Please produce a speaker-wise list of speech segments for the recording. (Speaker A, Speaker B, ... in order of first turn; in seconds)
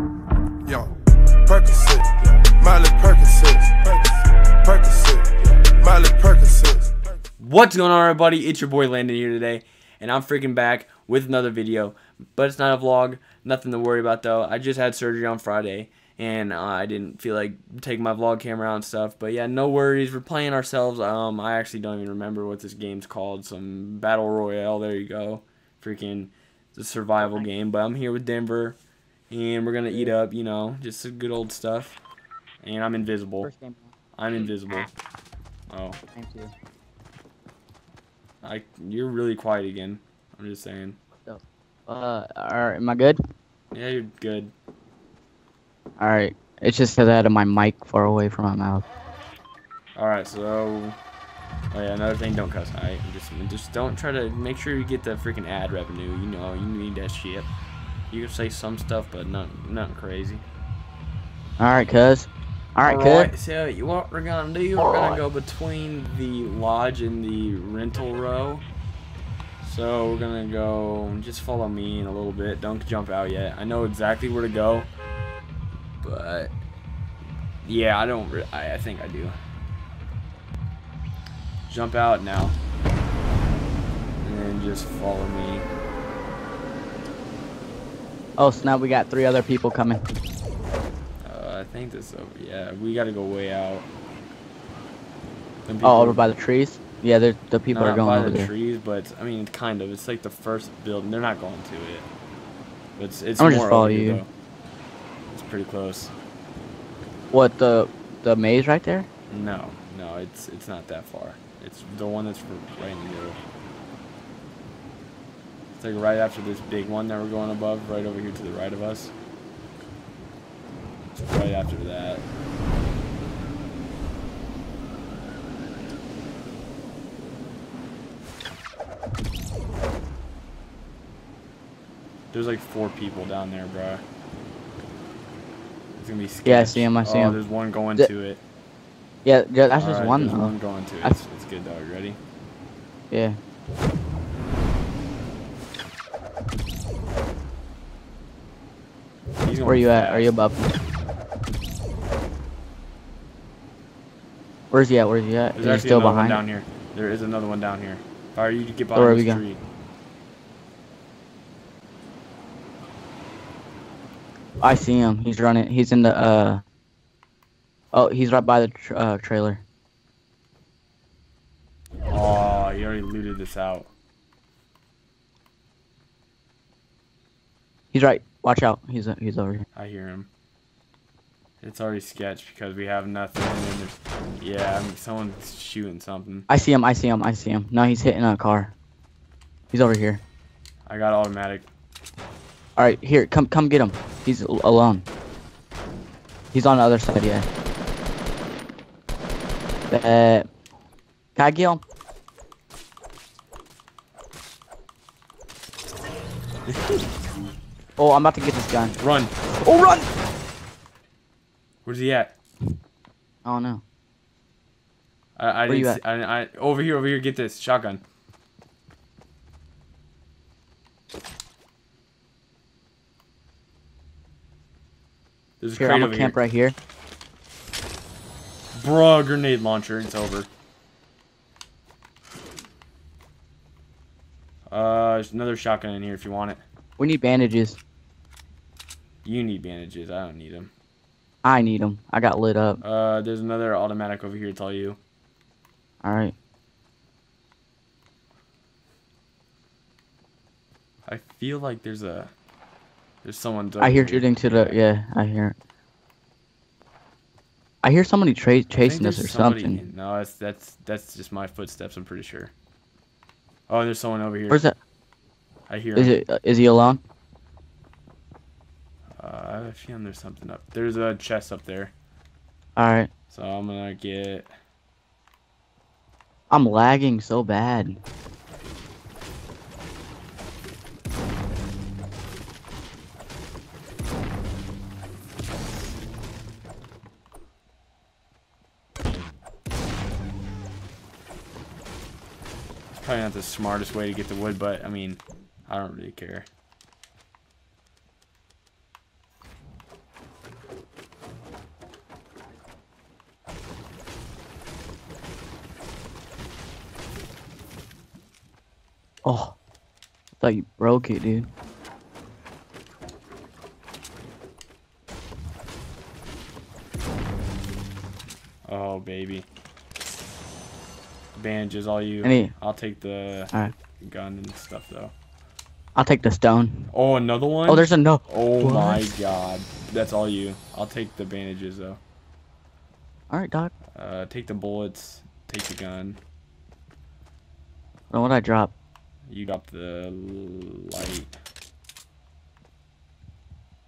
Speaker A: 1.5-3.9, 4.7-6.9
Speaker B: 7.4-28.8, 29.3-32.0, 32.6-33.5, 34.2-34.9, 35.7-36.0, 38.4-41.0, 43.7-44.5, 50.0-51.0, 51.7-57.5, 58.1-60.5, 62.8-68.7, 69.6-74.9, 76.0-76.6, 77.6-79.4, 81.7-82.6, 84.2-85.7, 91.2-93.9, 95.7-96.2, 97.7-102.1, 103.0-104.3, 105.3-106.1, 109.3-113.4, 115.7-119.1, 121.2-122.2, 132.3-134.0, 135.9-138.4, 139.8-142.2, 149.4-150.3, 155.6-159.6, 172.1-173.9, 179.8-180.3, 181.6-186.5, 190.9-191.7, 206.7-207.0, 209.0-209.3, 211.8-212.3, 215.4-218.0, 225.6-226.4, 228.7-230.5, 234.7-236.6, 239.2-240.7, 242.8-245.0, 251.1-252.3, 253.2-254.8, 258.7-262.5, 263.7-264.6, 265.7-266.1, 269.2-271.9, 273.3-274.5, 292.9-296.5, 318.6-319.5, 321.4-325.1, 326.9-332.0, 333.9-336.2, 339.3-341.4
Speaker C: 33.4-33.9, 36.1-36.5, 41.2-43.2, 46.0-48.9, 61.6-63.3, 64.8-65.2, 88.4-90.0, 95.8-98.5, 103.4-104.2, 107.3-109.1, 136.4-137.4, 139.2-141.2, 143.1-143.4, 149.7-150.8, 154.7-156.4, 158.9-159.4, 164.6-166.6, 167.9-169.6, 177.9-179.7, 186.5-188.8, 189.7-190.2, 192.8-195.1, 196.5-197.5, 199.9-200.5, 201.3-201.8, 208.0-209.0, 209.6-210.1, 213.4-213.8, 215.7-216.0, 225.8-226.8, 237.0-237.8, 241.4-242.8, 246.0-246.3, 253.8-255.6, 257.8-259.8, 264.5-264.8, 266.0-267.0, 272.8-273.1, 276.5-278.0, 309.2-309.6, 310.4-311.5, 322.2-322.5, 326.0-326.9, 327.7-329.1, 333.3-333.7, 338.1-338.7